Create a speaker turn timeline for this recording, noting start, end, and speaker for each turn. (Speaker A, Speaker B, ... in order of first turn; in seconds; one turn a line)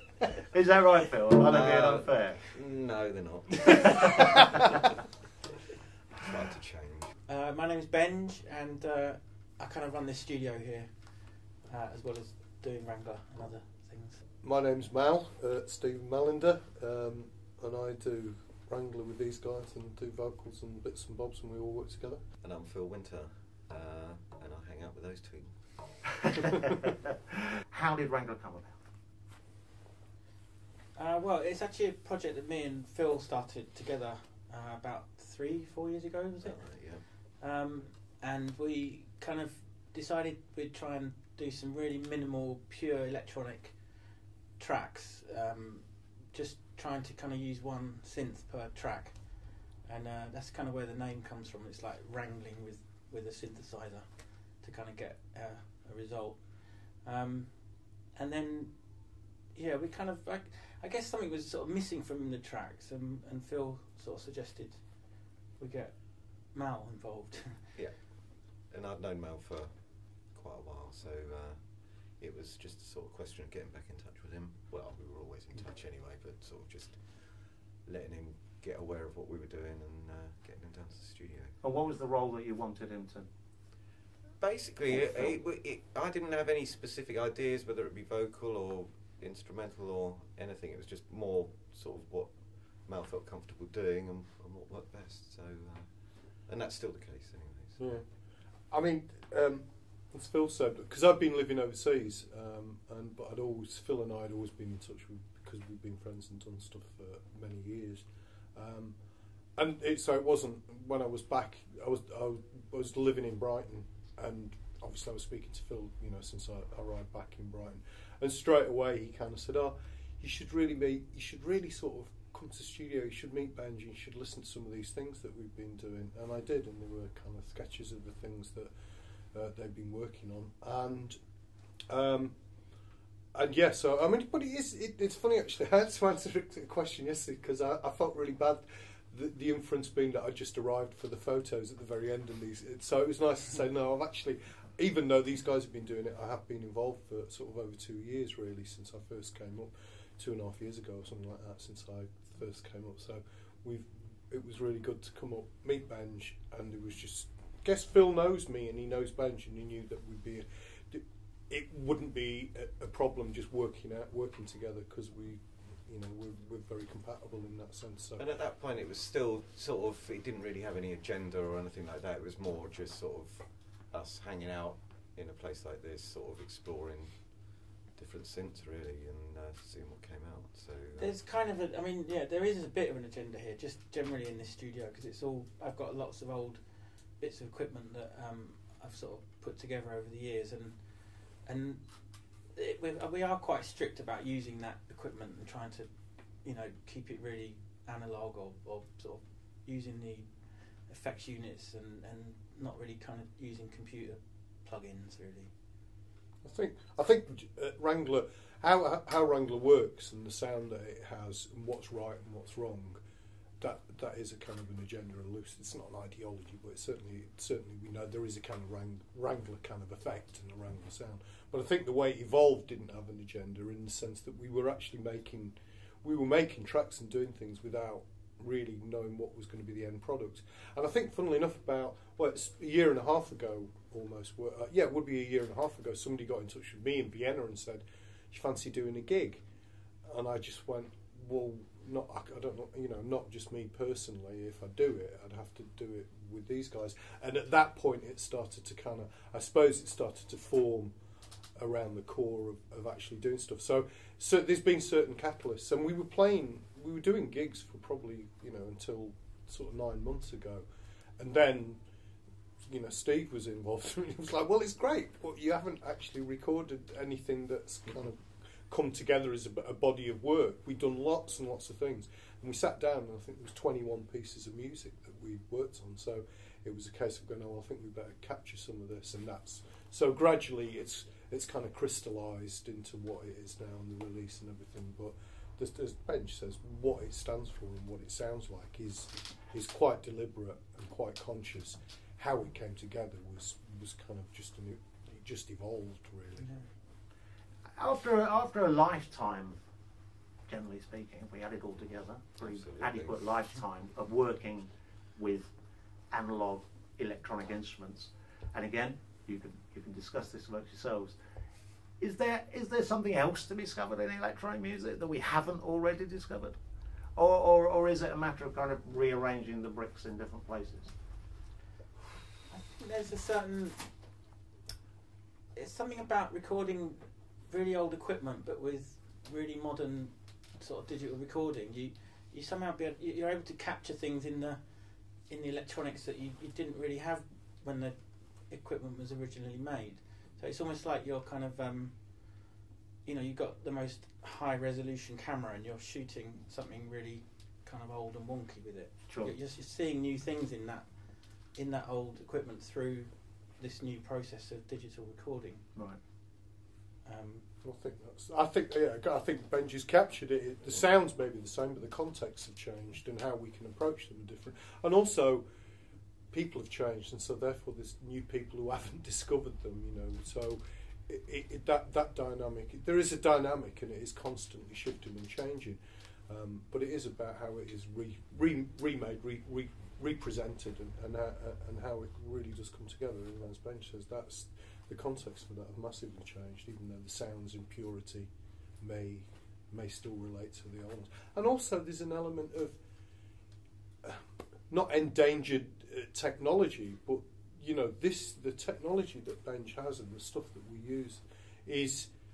Speaker A: 0.5-2.4
Speaker B: 1.4-4.4
Speaker B: 6.1-7.1
Speaker C: 7.3-14.2
Speaker D: 14.4-22.2
Speaker B: 22.4-26.3
Speaker A: 27.6-28.8
Speaker C: 30.9-67.7
Speaker B: 36.4-37.0
Speaker B: 67.8-81.6
Speaker A: 81.6-83.3
Speaker B: 84.4-97.9
Speaker D: 97.8-109.0
Speaker D: 109.5-128.7
Speaker D: 129.3-131.2
Speaker D: 131.9-132.4
Speaker D: 133.3-168.2
Speaker B: 168.2-181.2
Speaker C: 180.9-195.9
Speaker C: 196.4-205.5
Speaker D: 206.4-213.0
Speaker D: 213.6-239.4
Speaker D: 240.1-250.9
Speaker D: 251.6-260.6
Speaker D: 261.2-261.8
Speaker D: 262.7-296.6
Speaker C: 296.4-296.7
Speaker A: 297.8-299.6
Speaker A: 300.5-305.5
Speaker B: 302.4-303.5
Speaker A: 306.1-311.1
Speaker A: 312.0-316.6
Speaker A: 317.2-320.9
Speaker C: 322.5-323.9
Speaker C: 325.5-355.6
Speaker A: 349.1-349.4
Speaker C: 357.1-357.5
Speaker D: 357.6-365.4
Speaker D: 366.3-392.8
Speaker D: 394.0-402.1